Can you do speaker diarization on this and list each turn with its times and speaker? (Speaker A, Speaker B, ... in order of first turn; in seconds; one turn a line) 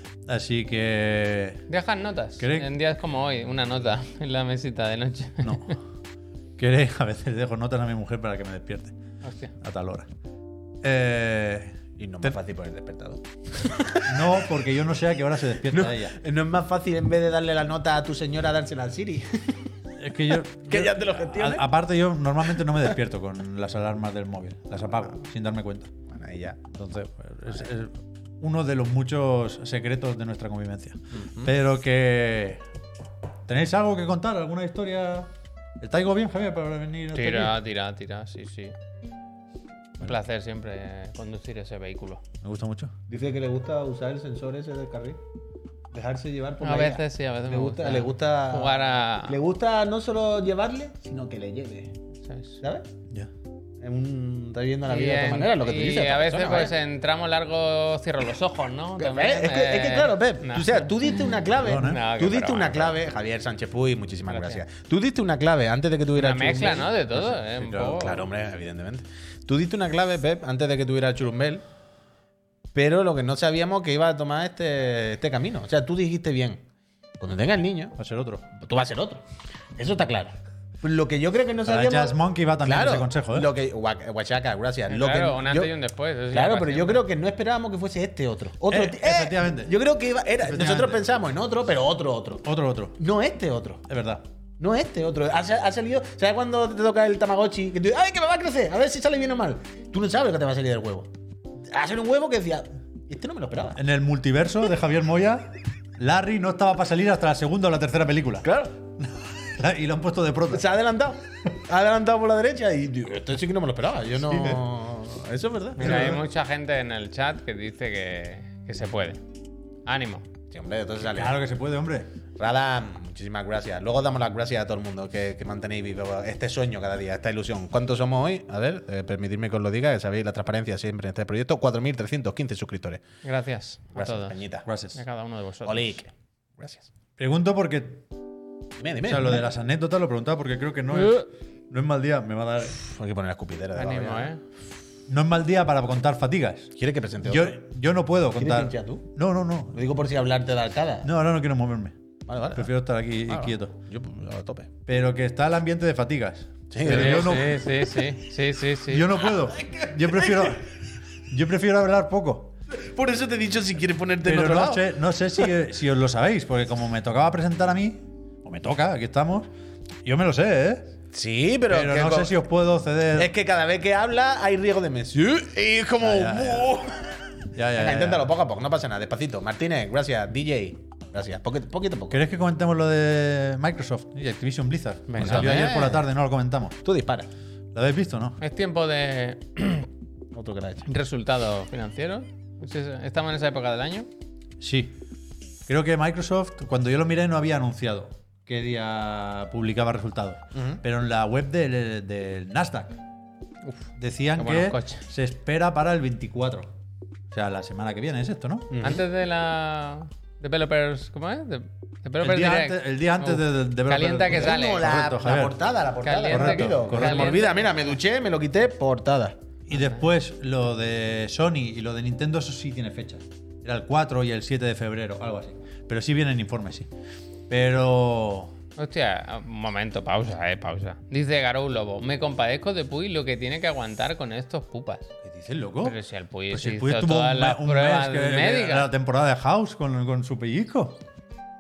Speaker A: 0.3-1.6
Speaker B: 1.7-5.8
Speaker A: 2.4-2.7
Speaker A: 5.4-5.8
Speaker A: 6.6-9.0
Speaker B: 9.2-9.5
Speaker A: 9.6-10.1
Speaker A: 10.8-12.3
Speaker C: 12.0-14.5
Speaker A: 14.1-16.2
Speaker C: 15.7-19.7
Speaker A: 20.0-25.9
Speaker C: 20.6-21.6
Speaker C: 26.1-26.6
Speaker A: 26.7-32.6
Speaker C: 31.1-31.5
Speaker A: 33.5-37.6
Speaker B: 37.1-38.7
Speaker B: 40.0-42.2
Speaker A: 42.4-42.9
Speaker C: 43.1-45.2
Speaker C: 45.9-51.9
Speaker B: 46.6-49.4
Speaker B: 52.2-52.6
Speaker C: 52.6-52.9
Speaker C: 53.8-56.7
Speaker B: 54.9-63.0
Speaker C: 59.0-67.0
Speaker A: 61.6-62.0
Speaker B: 64.3-64.6
Speaker B: 66.2-68.2
Speaker A: 67.1-68.1
Speaker C: 67.9-71.6
Speaker C: 72.8-76.6
Speaker C: 77.2-78.0
Speaker A: 78.0-78.5
Speaker C: 78.5-79.2
Speaker C: 79.8-85.7
Speaker A: 81.7-83.5
Speaker B: 84.9-87.0
Speaker C: 86.3-92.5
Speaker A: 88.7-89.8
Speaker A: 90.4-91.0
Speaker A: 92.4-93.0
Speaker C: 93.0-93.8
Speaker A: 93.9-94.2
Speaker C: 94.6-101.1
Speaker C: 101.7-103.8
Speaker A: 103.8-110.7
Speaker C: 108.4-108.7
Speaker C: 110.5-116.2
Speaker A: 114.3-114.6
Speaker B: 115.8-119.2
Speaker A: 115.8-116.2
Speaker B: 119.9-120.2
Speaker C: 120.5-121.4
Speaker A: 121.0-122.1
Speaker C: 122.4-133.0
Speaker B: 133.2-134.4
Speaker C: 133.9-134.7
Speaker A: 134.7-135.0
Speaker B: 134.9-136.0
Speaker C: 135.7-136.9
Speaker A: 137.2-138.1
Speaker C: 138.8-139.4
Speaker A: 139.0-142.8
Speaker B: 140.9-141.2
Speaker C: 142.7-144.3
Speaker B: 143.8-144.4
Speaker A: 145.1-146.7
Speaker C: 146.8-147.6
Speaker A: 147.2-149.8
Speaker C: 148.4-149.1
Speaker C: 149.7-151.1
Speaker A: 151.0-151.9
Speaker C: 152.3-152.7
Speaker A: 152.5-153.8
Speaker C: 153.3-154.7
Speaker A: 154.9-157.7
Speaker C: 156.7-157.6
Speaker B: 156.8-159.1
Speaker A: 158.9-160.7
Speaker C: 159.5-160.6
Speaker A: 161.3-162.5
Speaker C: 162.7-165.5
Speaker A: 164.2-169.5
Speaker A: 170.0-170.9
Speaker C: 171.1-172.3
Speaker A: 171.7-173.3
Speaker C: 173.1-182.2
Speaker A: 176.0-176.8
Speaker A: 177.5-178.3
Speaker A: 182.1-186.8
Speaker B: 185.1-185.9
Speaker C: 185.2-186.0
Speaker C: 186.8-187.3
Speaker A: 187.7-188.4
Speaker B: 188.4-189.9
Speaker C: 190.3-190.9
Speaker B: 190.9-194.1
Speaker A: 194.6-195.0
Speaker A: 195.7-203.0
Speaker C: 200.5-200.8
Speaker A: 204.0-206.7
Speaker B: 204.4-205.1
Speaker A: 207.3-208.8
Speaker C: 208.7-209.0
Speaker B: 208.8-214.9
Speaker A: 212.2-215.6
Speaker C: 214.3-219.4
Speaker B: 216.0-217.9
Speaker A: 216.3-217.4
Speaker A: 219.7-226.9
Speaker B: 219.7-220.0
Speaker A: 227.5-228.5
Speaker B: 228.8-235.1
Speaker A: 235.3-236.0
Speaker B: 235.8-238.9
Speaker A: 236.5-241.0